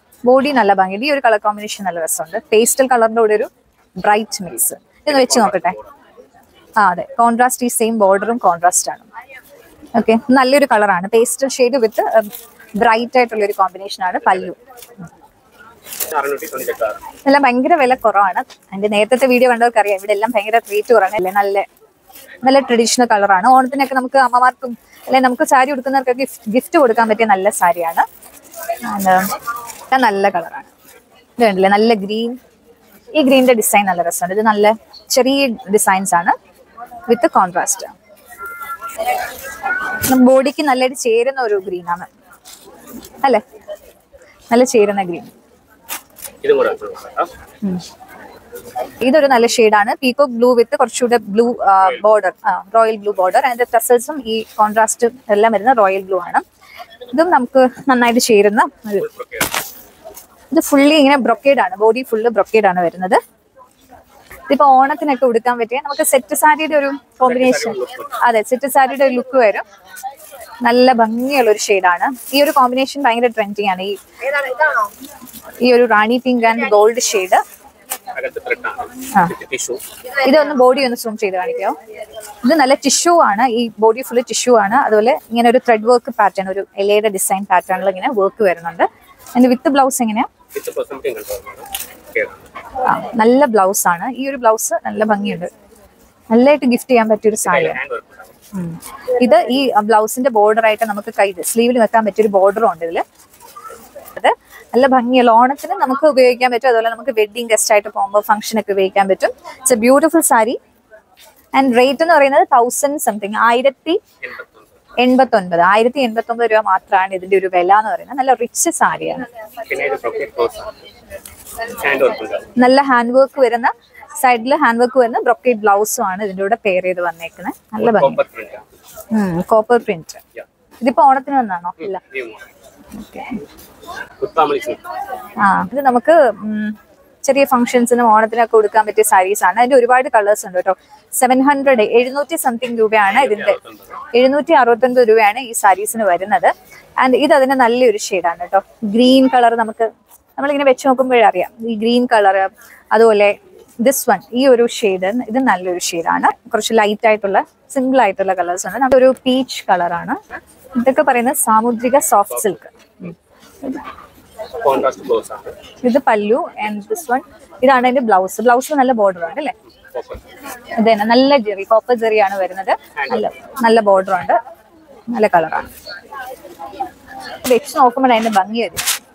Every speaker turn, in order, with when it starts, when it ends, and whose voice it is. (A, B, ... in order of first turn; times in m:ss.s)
0:00.2-0:05.8 A
0:05.1-0:05.9 B
0:06.8-0:09.1 A
0:10.0-0:14.6 A
0:16.1-0:17.0 B
0:17.2-0:21.7 A
0:22.4-0:28.1 A
0:28.9-0:29.3 A
0:29.9-0:30.7 A
0:31.4-0:32.4 A
0:33.1-0:36.4 A
0:37.1-0:37.9 A
0:40.0-0:42.1 A
0:44.5-0:45.3 A
0:46.4-0:47.3 B
0:49.0-0:56.4 A
0:57.1-0:59.1 A
0:59.0-0:59.5 B
1:00.5-1:03.2 A
1:04.5-1:09.6 A
1:07.3-1:08.2 B
1:10.6-1:14.0 A
1:15.6-1:17.4 A
1:18.1-1:19.8 B
1:20.2-1:21.8 A
1:22.4-1:30.3 A
1:30.5-1:32.5 B
1:32.8-1:35.5 A
1:36.3-1:37.8 A
1:37.4-1:38.4 B
1:38.5-1:43.0 A
1:44.2-1:50.6 A
1:51.5-1:54.0 A
1:54.2-1:54.7 B
1:55.0-1:59.2 A
1:59.6-2:00.7 B
2:01.7-2:02.5 B
2:02.6-2:08.2 A
2:07.8-2:08.6 B
2:09.1-2:10.2 A
2:10.8-2:12.0 A
2:11.8-2:12.5 B
2:13.0-2:13.4 A
2:14.2-2:14.8 B
2:15.4-2:23.6 A
2:23.1-2:24.0 B
2:24.1-2:40.2 A
2:40.8-2:42.7 A
2:44.6-2:45.6 B
2:45.8-2:49.5 A
2:49.9-2:50.2 B
2:50.8-2:54.4 A
2:53.0-2:53.3 B
2:55.1-2:55.7 A
2:57.4-2:58.9 A